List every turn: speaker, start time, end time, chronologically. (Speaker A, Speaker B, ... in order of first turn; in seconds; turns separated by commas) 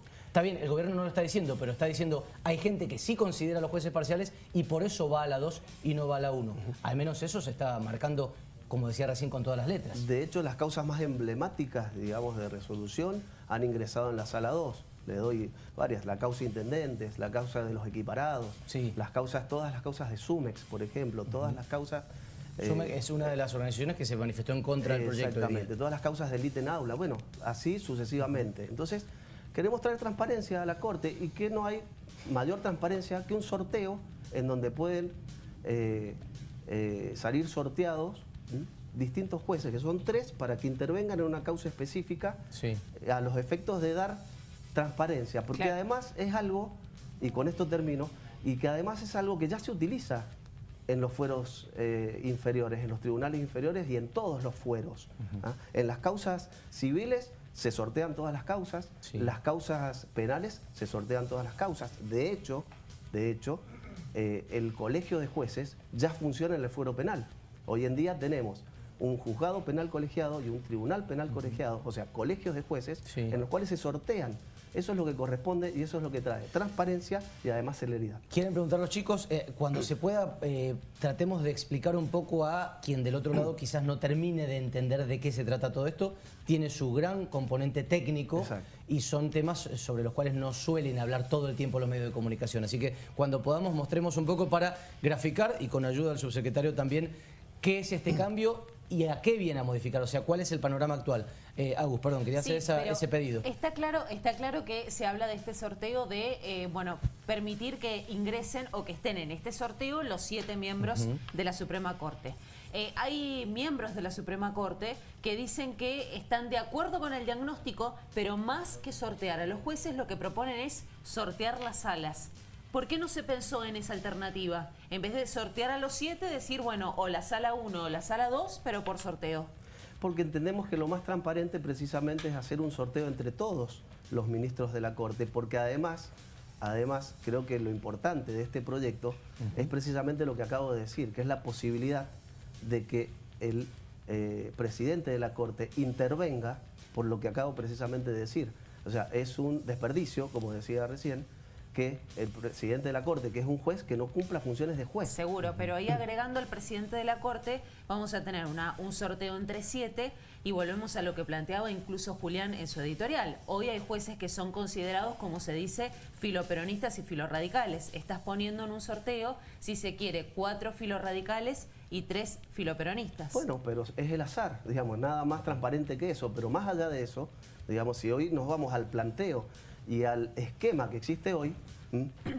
Speaker A: 0.3-10.0, Speaker B: 9.9-22.1, Speaker A: 18.7-19.0, Speaker B: 22.6-23.0, Speaker A: 22.6-25.7, Speaker B: 24.8-50.3, Speaker A: 42.5-42.8, Speaker B: 50.9-78.2, Speaker A: 73.1-73.4, Speaker A: 78.3-103.4, Speaker C: 102.4-129.5, Speaker B: 130.0-155.2, Speaker C: 155.1-173.4, Speaker B: 173.3-182.2